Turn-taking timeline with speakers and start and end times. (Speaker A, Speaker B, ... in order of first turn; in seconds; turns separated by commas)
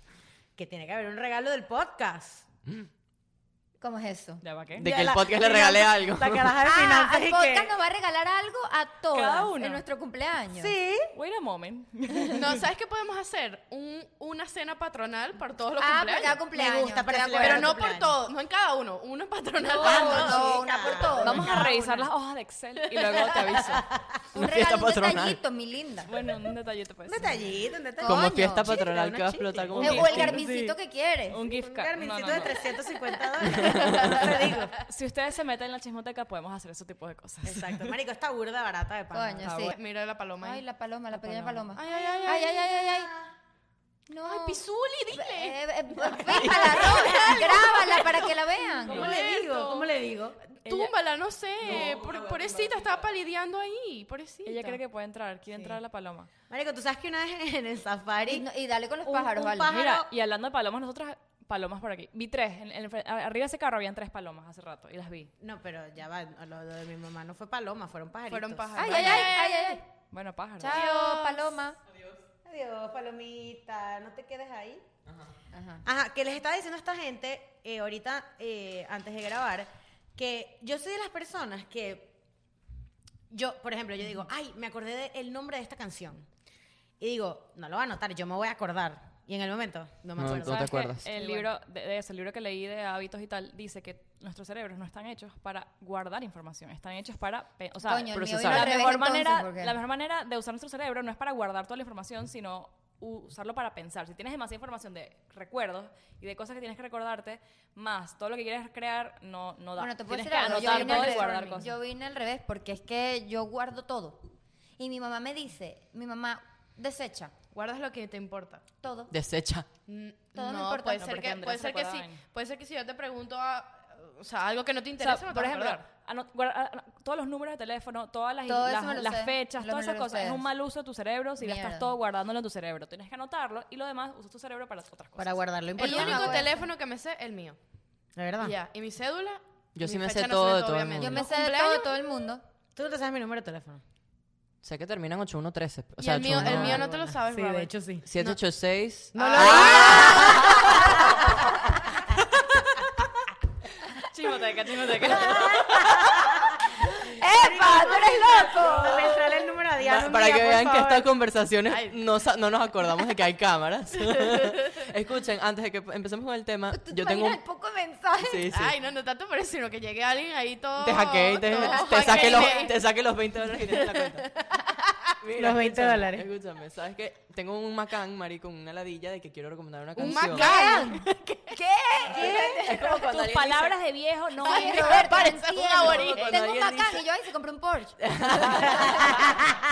Speaker A: 0.6-2.4, Speaker B: 3.8-4.4, Speaker C: 4.4-4.9, Speaker D: 4.7-6.6, Speaker A: 4.8-7.7, Speaker B: 6.6-10.7, Speaker C: 9.1-9.8, Speaker A: 10.5-11.1, Speaker C: 11.1-12.6, Speaker E: 12.3-16.4, Speaker B: 15.8-17.9, Speaker A: 16.5-18.2, Speaker E: 17.3-20.6, Speaker B: 19.6-21.7, Speaker A: 19.7-22.1, Speaker C: 21.1-23.9, Speaker A: 23.3-24.0, Speaker B: 24.3-26.1, Speaker D: 24.3-25.4, Speaker C: 26.1-27.6, Speaker A: 27.1-30.4, Speaker B: 28.0-28.7, Speaker D: 28.0-30.7, Speaker B: 29.7-31.4, Speaker C: 29.8-30.4, Speaker C: 31.3-32.6, Speaker A: 31.5-34.7, Speaker D: 33.5-34.2, Speaker B: 33.7-34.3, Speaker C: 34.7-37.9, Speaker A: 37.4-39.5, Speaker B: 39.1-39.8, Speaker C: 39.4-39.7, Speaker E: 39.6-40.6, Speaker B: 40.4-43.1, Speaker C: 41.1-41.7, Speaker E: 41.7-42.6, Speaker A: 41.9-43.3, Speaker B: 44.1-49.1, Speaker E: 44.2-54.8, Speaker D: 46.3-46.8, Speaker A: 46.7-48.3, Speaker A: 48.9-50.4, Speaker C: 50.6-50.9, Speaker D: 51.6-53.1, Speaker C: 54.5-56.3, Speaker A: 55.5-55.8, Speaker A: 56.5-58.4, Speaker B: 58.3-59.7, Speaker A: 59.0-60.1, Speaker C: 59.6-65.3, Speaker A: 65.4-69.1, Speaker E: 68.3-69.8, Speaker B: 68.7-69.8, Speaker C: 70.1-70.8, Speaker B: 70.6-71.8, Speaker E: 70.7-71.5, Speaker D: 71.9-72.2, Speaker A: 72.4-74.8, Speaker B: 75.5-75.8, Speaker A: 75.8-82.1, Speaker A: 83.3-86.2, Speaker A: 87.0-90.8, Speaker D: 90.2-91.1, Speaker C: 90.3-111.7, Speaker B: 91.1-91.5, Speaker B: 97.8-99.7, Speaker D: 98.1-98.8, Speaker B: 109.8-117.3, Speaker A: 110.1-111.4, Speaker E: 110.5-111.6, Speaker E: 117.5-118.6, Speaker B: 118.8-119.1, Speaker D: 119.1-119.7, Speaker E: 119.9-125.8, Speaker B: 120.3-121.0, Speaker C: 121.0-122.2, Speaker C: 125.0-135.4, Speaker B: 128.4-130.4, Speaker B: 131.4-131.9, Speaker A: 135.2-136.5, Speaker B: 135.8-136.6, Speaker E: 135.8-137.6, Speaker A: 138.2-138.5, Speaker E: 138.4-141.9, Speaker D: 139.8-141.3, Speaker B: 141.0-142.4, Speaker A: 142.7-143.8, Speaker D: 144.6-147.0, Speaker E: 146.0-148.4, Speaker B: 146.3-146.9, Speaker A: 147.2-148.1, Speaker D: 148.1-150.9, Speaker A: 149.1-151.5, Speaker E: 149.2-150.4, Speaker B: 149.3-151.0, Speaker D: 152.4-152.8, Speaker C: 154.1-155.8, Speaker A: 155.0-156.5, Speaker B: 155.7-159.5, Speaker A: 157.1-161.1, Speaker D: 159.8-167.4, Speaker E: 161.7-161.9, Speaker E: 164.1-164.5, Speaker B: 166.7-168.5, Speaker D: 168.2-168.7, Speaker E: 168.5-172.8, Speaker D: 170.8-174.5, Speaker B: 171.4-172.7, Speaker E: 173.7-174.2, Speaker D: 175.2-180.5, Speaker A: 175.3-176.3, Speaker E: 179.9-181.6, Speaker B: 180.0-183.3, Speaker D: 182.1-183.8, Speaker A: 182.1-182.6, Speaker C: 182.7-185.1, Speaker B: 184.4-189.4, Speaker E: 184.4-186.4, Speaker D: 185.8-187.0, Speaker D: 188.0-189.4, Speaker A: 188.8-189.5